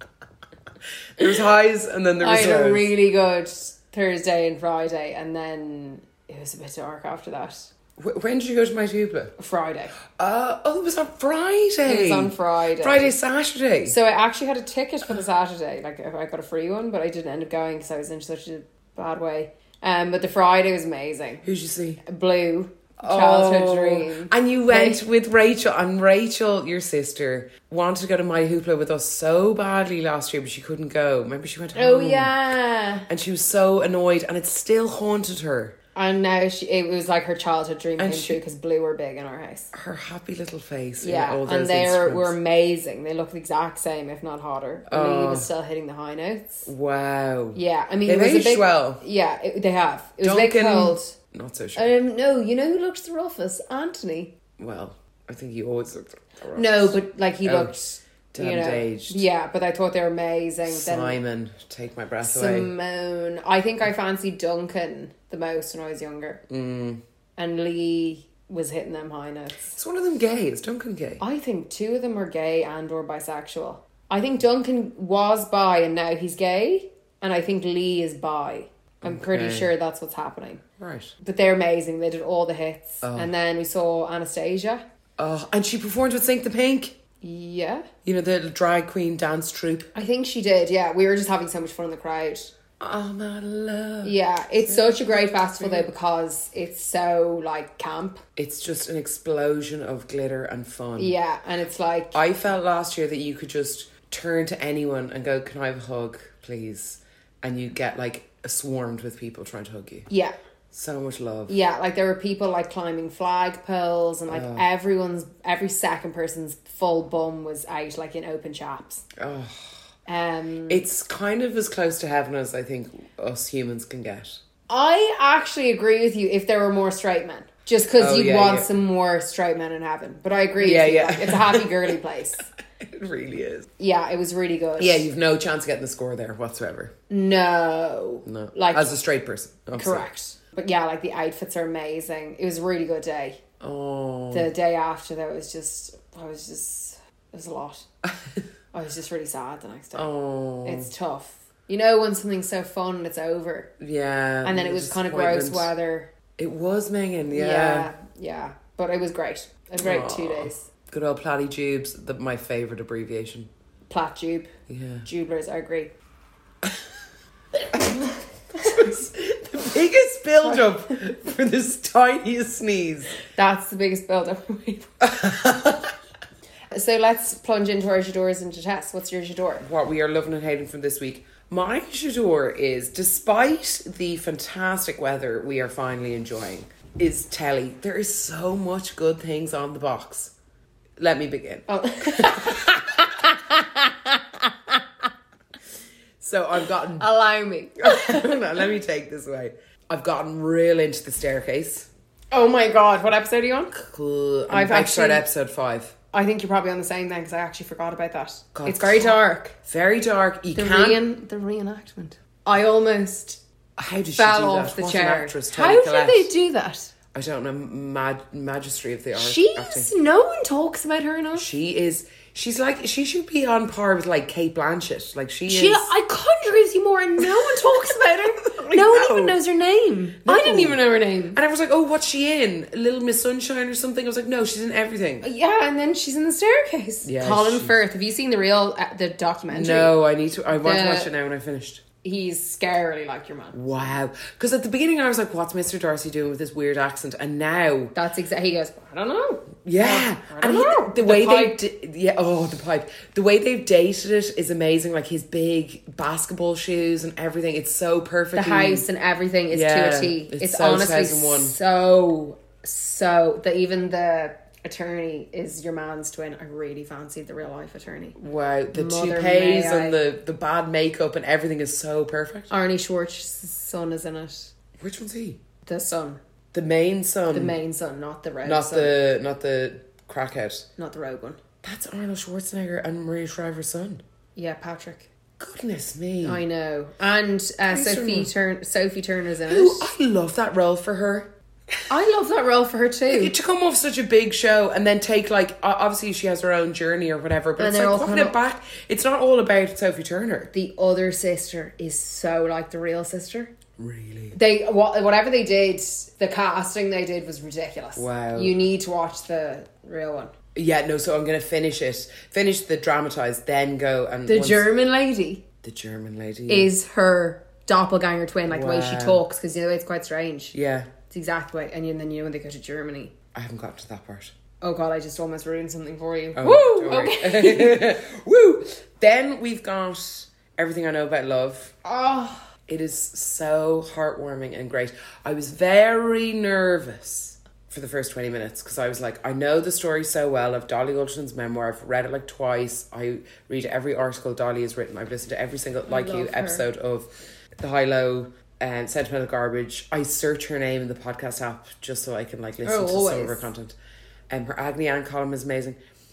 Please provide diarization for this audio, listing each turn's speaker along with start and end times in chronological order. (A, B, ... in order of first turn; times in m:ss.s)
0:01.2-0:02.9 A
0:02.2-0:07.7 B
0:08.0-0:09.4 A
0:09.4-0:10.0 B
0:10.1-0:14.0 A
0:11.9-0:13.1 B
0:13.8-0:21.4 B
0:21.4-0:22.0 A
0:22.0-0:25.0 B
0:23.0-0:32.4 A
0:31.7-0:33.1 B
0:33.1-0:35.8 A
0:36.0-0:39.7 B
0:38.0-0:38.4 A
0:39.7-0:42.4 A
0:41.0-0:46.7 B
0:44.9-0:45.5 A
0:46.6-0:49.0 A
0:47.5-0:51.1 B
0:50.2-0:51.9 A
0:51.7-0:54.4 B
0:54.6-0:57.8 A
0:56.6-1:01.2 B
0:58.3-0:59.2 A
1:00.6-1:02.7 A
1:02.2-1:06.4 B
1:06.5-1:07.0 A
1:07.4-1:09.7 B
1:09.7-1:11.2 A
1:11.2-1:20.6 B
1:19.0-1:19.7 A
1:20.8-1:21.1 A
1:21.2-1:24.8 B
1:23.0-1:23.3 A
1:25.2-1:27.0 A
1:27.2-1:27.9 B
1:28.0-1:29.9 A
1:30.0-1:32.5 B
1:32.8-1:35.9 A
1:34.0-1:38.2 B
1:38.4-1:41.1 A
1:41.0-1:42.2 B
1:42.1-1:50.1 A
1:50.1-1:50.4 B
1:50.7-1:51.6 A
1:51.5-1:59.0 B
1:54.3-1:54.7 A
1:59.2-1:59.7 A
2:00.0-2:00.9 B
2:00.7-2:04.4 A
2:04.7-2:12.4 B
2:08.0-2:08.7 A
2:10.6-2:11.9 A
2:12.8-2:13.7 A
2:13.8-2:15.1 B
2:14.8-2:16.9 A
2:17.1-2:19.0 B
2:18.2-2:20.1 A
2:19.7-2:23.4 B
2:23.6-2:24.5 A
2:24.3-2:27.8 B
2:28.0-2:28.4 A
2:28.7-2:30.1 B
2:29.9-2:30.9 A
2:30.6-2:33.7 B
2:33.8-2:35.7 A
2:34.4-2:36.1 B
2:36.4-2:37.9 A
2:37.3-2:40.7 B
2:39.8-2:43.5 A
2:43.9-2:44.5 B
2:44.7-2:45.1 A
2:45.0-2:45.9 B
2:48.5-2:53.2 A
2:53.3-2:55.6 B
2:55.0-2:55.9 A
2:56.7-2:59.6 B
2:59.6-3:10.3 A
3:11.0-3:12.8 A
3:11.7-3:14.8 B
3:16.2-3:17.1 A
3:17.0-3:18.3 B
3:17.8-3:21.9 A
3:22.3-3:23.8 B
3:23.7-3:26.0 A
3:24.5-3:25.2 B
3:26.1-3:29.5 B
3:28.5-3:31.0 A
3:30.6-3:33.4 B
3:33.8-3:36.3 A
3:34.1-3:36.9 B
3:37.1-3:39.9 A
3:39.1-3:41.5 B
3:41.3-3:45.9 A
3:45.5-3:51.4 B
3:47.2-3:49.4 A
3:50.2-3:50.8 A
3:51.3-3:55.3 A
3:55.2-3:59.9 B
3:57.0-3:57.8 A
3:59.5-4:01.8 A
4:00.5-4:01.1 B
4:02.0-4:03.6 B
4:03.5-4:07.9 A
4:07.9-4:11.6 B
4:09.6-4:18.9 A
4:18.3-4:28.2 B
4:19.5-4:21.6 A
4:28.2-4:32.5 A
4:28.7-4:30.0 B
4:32.5-4:34.5 B
4:34.8-4:35.4 A
4:35.6-4:36.2 B
4:36.5-4:37.6 A
4:37.3-4:39.0 B
4:38.4-4:40.6 A
4:40.8-4:41.4 B
4:41.6-4:44.0 A
4:44.4-4:45.1 B
4:45.4-4:46.4 A
4:46.2-4:49.9 B
4:47.7-4:48.3 A
4:49.5-4:51.3 A
4:51.9-4:53.3 B
4:53.1-5:00.5 A
4:57.6-4:58.4 B
5:00.5-5:03.5 B
5:03.8-5:04.4 A
5:04.3-5:10.3 B
5:07.9-5:08.6 A
5:10.5-5:14.7 A
5:14.3-5:15.4 B
5:15.6-5:16.7 A
5:16.5-5:20.5 B
5:18.5-5:19.2 A
5:20.5-5:20.9 A
5:21.1-5:23.1 B
5:23.3-5:24.3 A
5:24.6-5:28.0 B
5:26.3-5:31.8 A
5:31.8-5:32.5 B
5:32.7-5:53.8 A
5:45.8-5:46.6 B
5:52.6-5:53.5 B
5:54.3-5:55.8 A